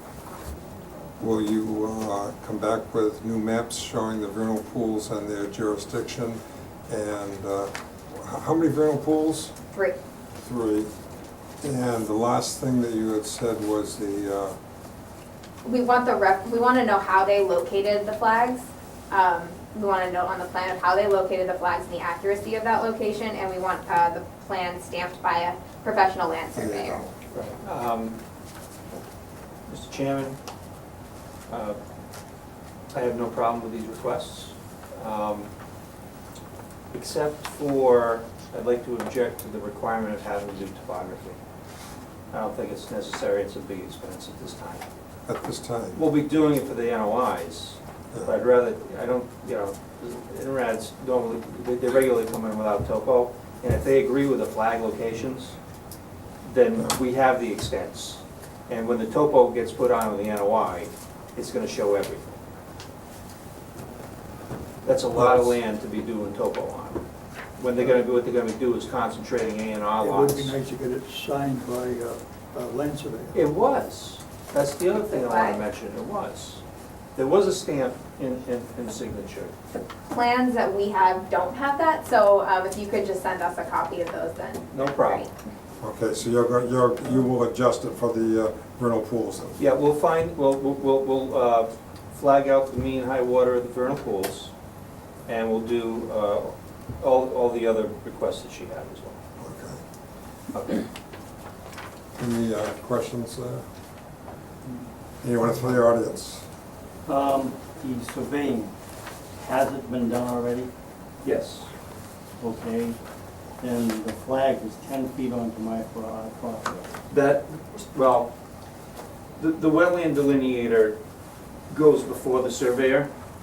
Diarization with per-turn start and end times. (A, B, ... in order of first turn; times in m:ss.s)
0:01.2-0:09.5 A
0:10.3-0:10.9 A
0:11.6-0:14.5 A
0:15.6-0:27.1 B
0:26.5-0:27.1 A
0:27.3-0:28.2 C
0:29.7-0:30.4 C
0:31.5-0:31.8 C
0:32.9-0:35.5 C
0:36.9-0:41.4 C
0:42.3-0:44.8 C
0:45.2-0:46.0 A
0:45.9-0:55.6 C
0:56.4-1:02.4 C
1:04.8-1:07.0 C
1:07.6-1:10.5 C
1:10.0-1:13.5 D
1:13.3-1:16.6 C
1:15.1-1:15.6 B
1:17.2-1:19.5 C
1:19.7-1:25.3 B
1:24.7-1:25.3 C
1:25.8-1:29.6 A
1:29.6-1:34.5 C
1:35.3-1:39.2 C
1:39.4-1:39.8 A
1:40.5-1:40.8 C
1:42.2-1:43.6 A
1:45.2-1:46.4 A
1:47.0-1:48.7 E
1:49.4-1:50.7 E
1:51.2-1:51.7 C
1:52.4-1:53.0 E
1:53.6-1:56.8 E
1:57.1-1:58.3 C
1:59.4-2:01.0 C
2:01.7-2:03.1 C